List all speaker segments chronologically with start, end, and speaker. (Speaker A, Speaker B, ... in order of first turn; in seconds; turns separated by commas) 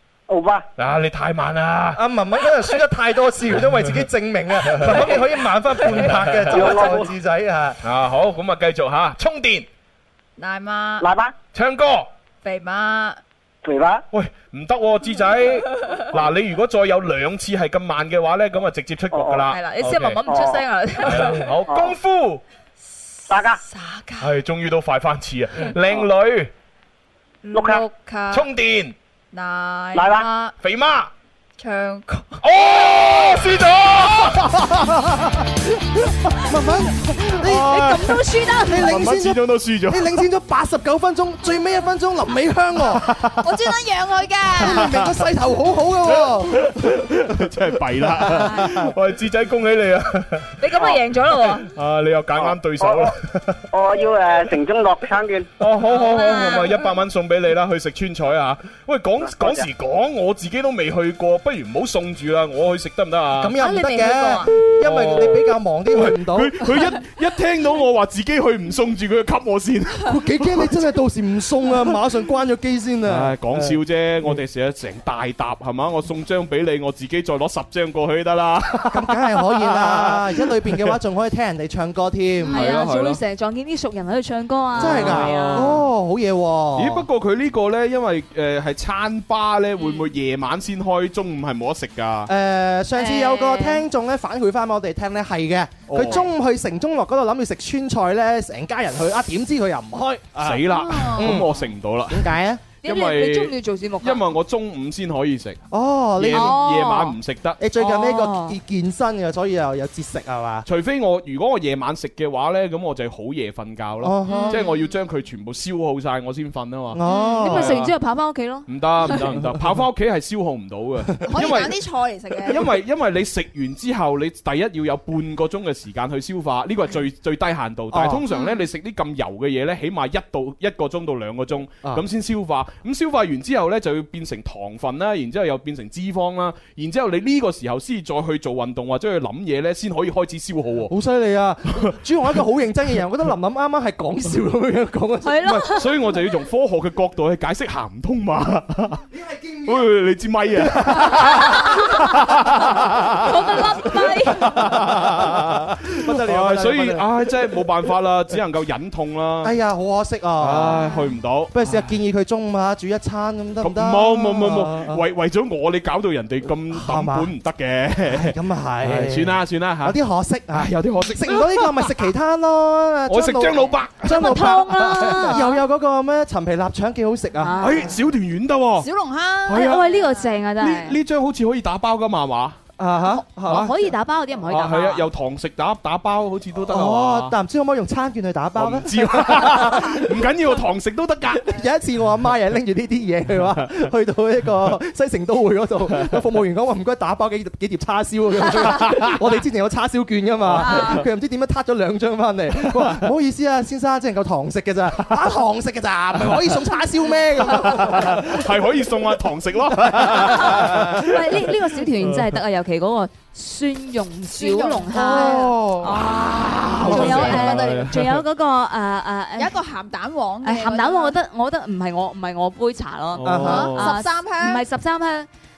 Speaker A: 0.3-0.7, Speaker B: 0.8-2.0, Speaker C: 1.9-7.8, Speaker B: 4.7-5.3, Speaker B: 5.8-6.9, Speaker A: 6.5-7.1, Speaker B: 7.8-9.7, Speaker D: 10.4-11.1, Speaker A: 11.0-11.3, Speaker B: 11.5-12.1, Speaker D: 12.4-13.2, Speaker A: 13.6-14.0, Speaker B: 14.1-20.2, Speaker A: 19.1-19.5, Speaker E: 19.5-21.4, Speaker A: 20.2-20.6, Speaker B: 21.0-22.4, Speaker A: 21.7-21.9, Speaker A: 23.3-23.6, Speaker D: 23.6-24.3, Speaker B: 24.2-26.5, Speaker D: 27.4-28.5, Speaker A: 27.5-27.8, Speaker B: 28.3-28.9, Speaker D: 29.3-30.5, Speaker A: 29.9-30.3, Speaker B: 30.6-31.1, Speaker D: 31.6-32.4, Speaker B: 32.4-34.8, Speaker C: 34.4-35.3, Speaker C: 36.4-43.1, Speaker B: 37.4-40.2, Speaker E: 37.7-38.8, Speaker B: 43.0-43.4, Speaker F: 43.4-44.8, Speaker C: 44.6-46.7, Speaker B: 44.6-45.3, Speaker B: 46.1-53.2, Speaker C: 48.0-48.9, Speaker E: 50.6-51.7, Speaker A: 52.4-53.1, Speaker A: 53.7-55.5, Speaker B: 55.6-63.6, Speaker E: 55.9-56.8, Speaker A: 59.3-59.6, Speaker C: 63.4-66.8, Speaker E: 63.6-64.5, Speaker B: 64.8-70.7, Speaker C: 70.0-74.4, Speaker B: 73.1-81.0, Speaker C: 78.9-82.6, Speaker B: 82.4-83.2, Speaker E: 82.5-85.7, Speaker B: 84.8-85.7, Speaker C: 84.8-87.1, Speaker B: 86.8-92.3, Speaker E: 89.8-90.1, Speaker C: 92.3-101.6, Speaker E: 93.0-93.8, Speaker B: 95.9-96.2, Speaker B: 100.4-105.6, Speaker C: 102.1-102.6, Speaker E: 102.8-104.2, Speaker C: 105.7-106.6, Speaker B: 106.2-107.6, Speaker E: 106.3-107.2, Speaker C: 107.6-110.7, Speaker E: 107.8-108.6, Speaker B: 110.7-117.9, Speaker C: 114.0-114.7, Speaker E: 114.3-114.7, Speaker C: 116.9-117.8, Speaker E: 117.1-119.2, Speaker B: 118.7-121.8, Speaker F: 121.3-122.7, Speaker B: 122.5-140.9, Speaker C: 127.9-128.2, Speaker C: 140.9-145.7, Speaker E: 145.2-145.9, Speaker B: 145.7-149.0, Speaker C: 149.1-149.9, Speaker B: 149.7-153.7, Speaker C: 150.6-151.9, Speaker E: 151.4-151.8, Speaker C: 152.6-153.2, Speaker E: 153.2-154.6, Speaker B: 154.2-159.5, Speaker C: 154.4-157.3, Speaker C: 159.4-160.9, Speaker B: 160.4-161.8, Speaker E: 160.8-161.1, Speaker C: 161.5-165.0, Speaker B: 163.6-170.0, Speaker C: 166.7-167.3, Speaker C: 168.1-177.7, Speaker B: 170.5-171.9, Speaker B: 173.1-175.3, Speaker E: 174.1-175.6, Speaker E: 177.4-177.9, Speaker B: 177.6-178.9, Speaker F: 178.8-179.8, Speaker B: 179.5-179.9, Speaker E: 179.5-181.0, Speaker B: 180.6-182.6, Speaker C: 182.8-183.7, Speaker E: 183.1-185.1, Speaker B: 183.5-183.8, Speaker B: 184.5-187.3, Speaker C: 186.7-190.1, Speaker B: 188.6-191.5, Speaker C: 191.4-208.4, Speaker B: 193.4-193.7, Speaker B: 198.6-199.2, Speaker B: 200.4-201.0, Speaker E: 200.6-201.0, Speaker B: 202.6-203.0, Speaker B: 206.2-206.5, Speaker B: 207.5-212.4, Speaker C: 209.8-211.0, Speaker E: 210.3-219.6, Speaker F: 214.3-215.4, Speaker C: 214.9-217.5, Speaker B: 216.0-218.2, Speaker F: 219.4-221.2, Speaker E: 220.4-225.3, Speaker B: 223.2-224.0, Speaker C: 223.2-223.7, Speaker F: 223.5-224.6